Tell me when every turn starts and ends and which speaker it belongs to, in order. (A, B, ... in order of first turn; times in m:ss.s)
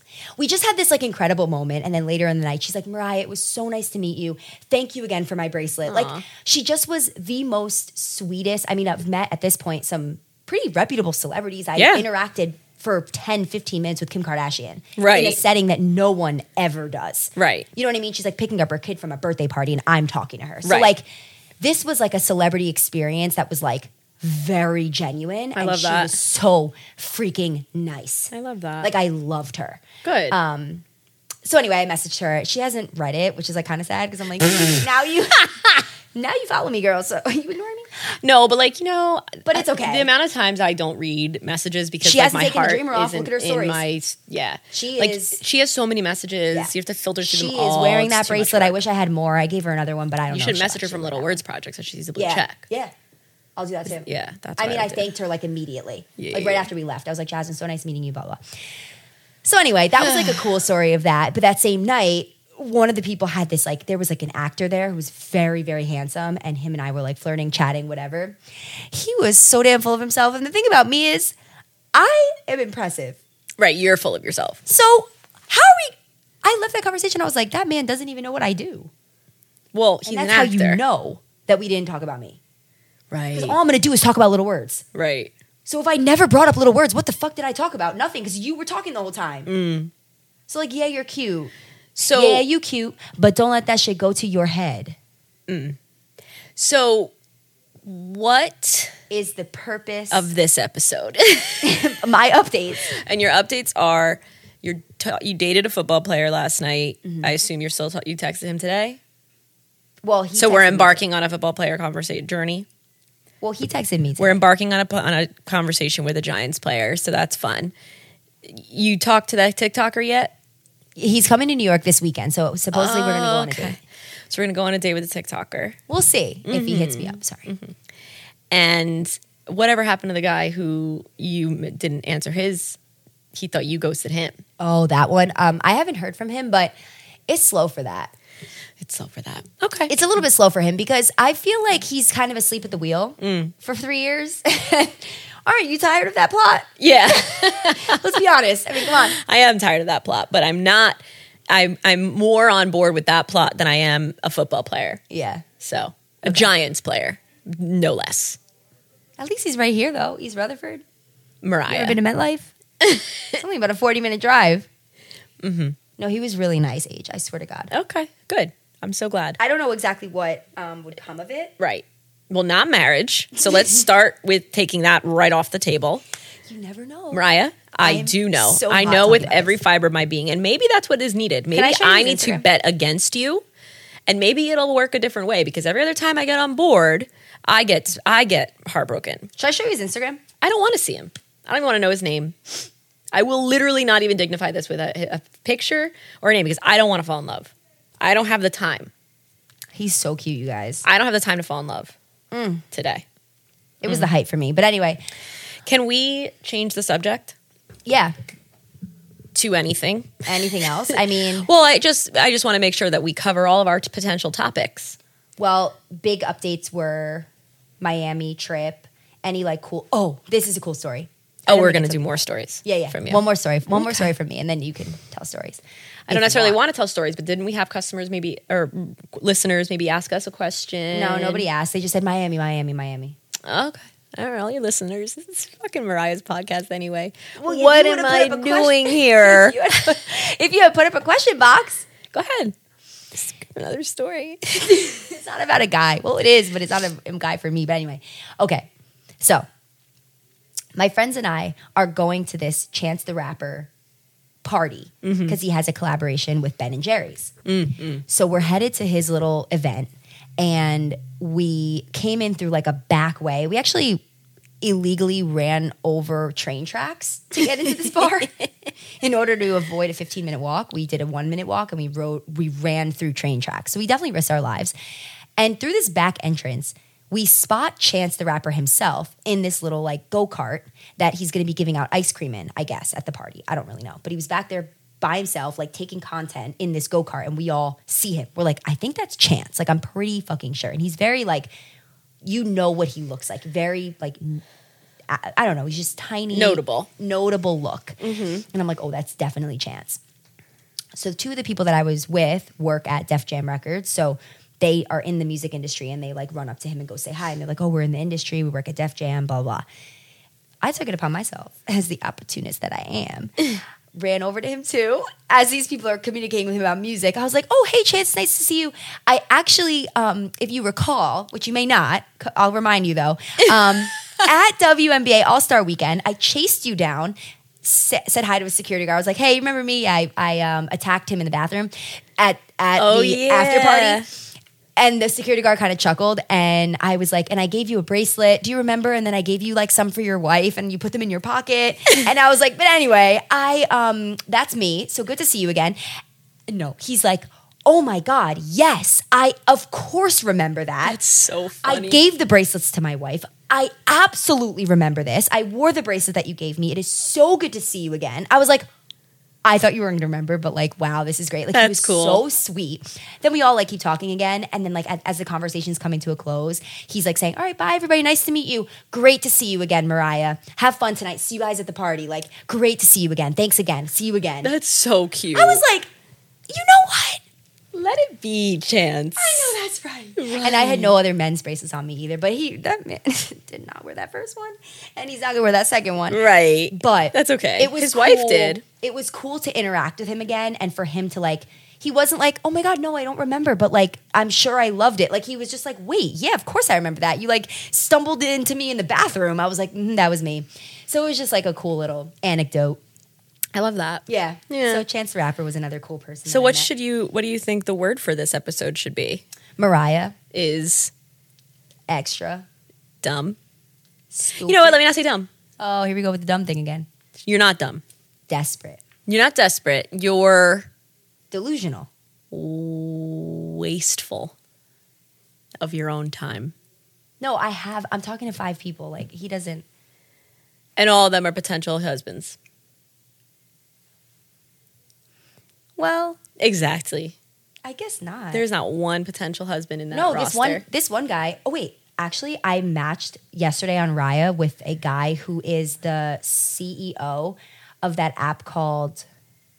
0:00.4-0:21.0 A
0:05.9-0:06.2 B
0:11.8-0:12.0 B
0:15.0-0:15.4 B
0:17.4-0:17.7 B
0:20.6-0:20.9 B
0:21.6-0:30.8 A
0:25.5-0:26.2 B
0:28.3-0:28.9 B
0:30.0-0:30.4 B
0:31.4-0:37.9 A
0:38.2-0:48.8 B
0:39.4-0:40.1 A
0:42.0-0:43.8 A
0:44.7-0:45.4 A
0:46.5-0:51.4 A
0:50.3-0:52.6 B
0:52.2-0:52.9 A
0:53.6-0:58.4 A
0:54.0-0:55.1 B
0:56.2-0:56.7 B
0:59.4-1:08.4 A
1:00.0-1:00.4 B
1:08.9-1:11.3 A
1:11.9-1:13.2 A
1:13.6-1:14.6 B
1:14.6-1:18.9 A
1:19.7-1:20.8 B
1:20.0-1:22.4 A
1:23.1-1:23.6 B
1:23.3-1:24.8 A
1:24.9-1:25.3 B
1:25.6-1:29.5 A
1:29.4-1:29.9 B
1:30.5-1:31.5 A
1:32.0-1:32.4 B
1:32.1-1:35.0 A
1:35.5-1:35.8 B
1:36.6-1:37.1 B
1:37.8-1:38.9 B
1:39.1-1:40.3 A
1:40.1-1:41.8 B
1:41.6-1:42.9 A
1:42.8-1:49.0 B
1:50.0-1:51.0 A
1:50.3-1:52.7 B
1:53.4-1:54.4 A
1:54.2-1:57.7 B
1:58.4-2:00.3 B
2:01.0-2:03.8 A
2:02.7-2:03.8 B
2:04.3-2:05.8 B
2:05.9-2:07.5 A
2:06.4-2:07.7 B
2:08.5-2:12.8 B
2:13.3-2:14.4 B
2:14.6-2:16.7 A
2:17.3-2:18.1 A
2:18.8-2:19.9 B
2:19.9-2:29.2 A
2:23.2-2:23.5 B
2:26.8-2:28.1 B
2:28.8-2:35.0 B
2:35.1-2:35.4 A
2:35.6-2:38.4 B
2:39.2-2:40.8 A
2:41.4-2:42.0 B
2:41.7-2:42.5 A
2:42.8-2:43.2 B
2:43.3-2:44.7 A
2:45.4-2:45.8 B
2:46.0-2:47.7 A
2:47.7-2:49.4 B
2:49.4-2:51.5 A
2:51.6-2:56.0 B
2:53.5-2:53.8 A
2:56.4-2:57.2 A
2:57.1-3:03.4 B
2:57.8-2:59.6 A
3:01.5-3:02.4 A
3:04.1-3:09.3 B
3:09.4-3:10.2 A
3:10.4-3:18.9 B
3:19.7-3:20.8 A
3:20.8-3:21.9 B
3:22.3-3:22.6 A
3:22.7-3:23.0 B
3:23.8-3:25.0 A
3:25.6-3:27.4 B
3:27.8-3:28.1 A
3:29.3-3:30.3 B
3:30.2-3:31.5 A
3:30.9-3:35.0 B
3:35.4-3:37.3 A
3:37.8-3:46.6 A
3:41.5-3:44.1 B
3:46.1-3:51.4 B
3:50.9-3:53.2 A
3:53.4-3:59.6 B
3:57.4-4:01.9 A
4:02.1-4:02.5 B
4:03.1-4:04.8 B
4:04.7-4:08.7 A
4:09.2-4:09.4 A
4:10.8-4:13.7 A
4:14.4-4:17.3 A
4:15.0-4:15.4 B
4:17.4-4:18.0 B
4:18.1-4:24.0 A
4:24.6-4:34.7 A
4:35.4-4:51.5 A
4:52.2-4:54.4 A
4:55.1-5:00.0 A
4:56.3-4:56.9 B
4:58.0-4:58.4 B
5:01.0-5:09.6 A
5:10.6-5:34.2 A
5:32.8-5:34.1 B
5:34.8-5:45.8 A
5:46.5-5:51.0 A
5:50.8-5:52.0 B
5:51.6-5:58.7 A
5:59.4-6:14.5 A
6:01.5-6:02.2 B
6:14.4-6:15.6 B
6:15.3-6:15.9 A
6:16.5-6:17.2 A
6:17.7-6:19.6 B
6:19.2-6:42.8 A
6:20.2-6:20.9 B
6:26.1-6:28.6 B
6:43.5-6:44.8 B
6:44.1-6:46.7 A
6:46.2-6:49.2 B
6:49.6-6:50.1 A
6:50.3-6:50.9 B
6:51.9-6:52.4 A
6:53.0-6:53.4 B
6:54.1-6:54.8 A
6:54.4-6:55.3 B
6:55.6-6:56.9 A
6:57.2-6:57.8 B
6:58.3-6:58.8 A
6:59.1-7:00.7 B
7:01.3-7:01.9 A
7:02.3-7:04.3 B
7:05.6-7:06.5 B
7:07.2-7:09.6 A
7:10.8-7:12.4 B
7:15.8-7:16.2 A
7:16.4-7:17.2 B
7:17.6-7:18.4 A
7:18.3-7:20.6 B
7:19.9-7:29.0 A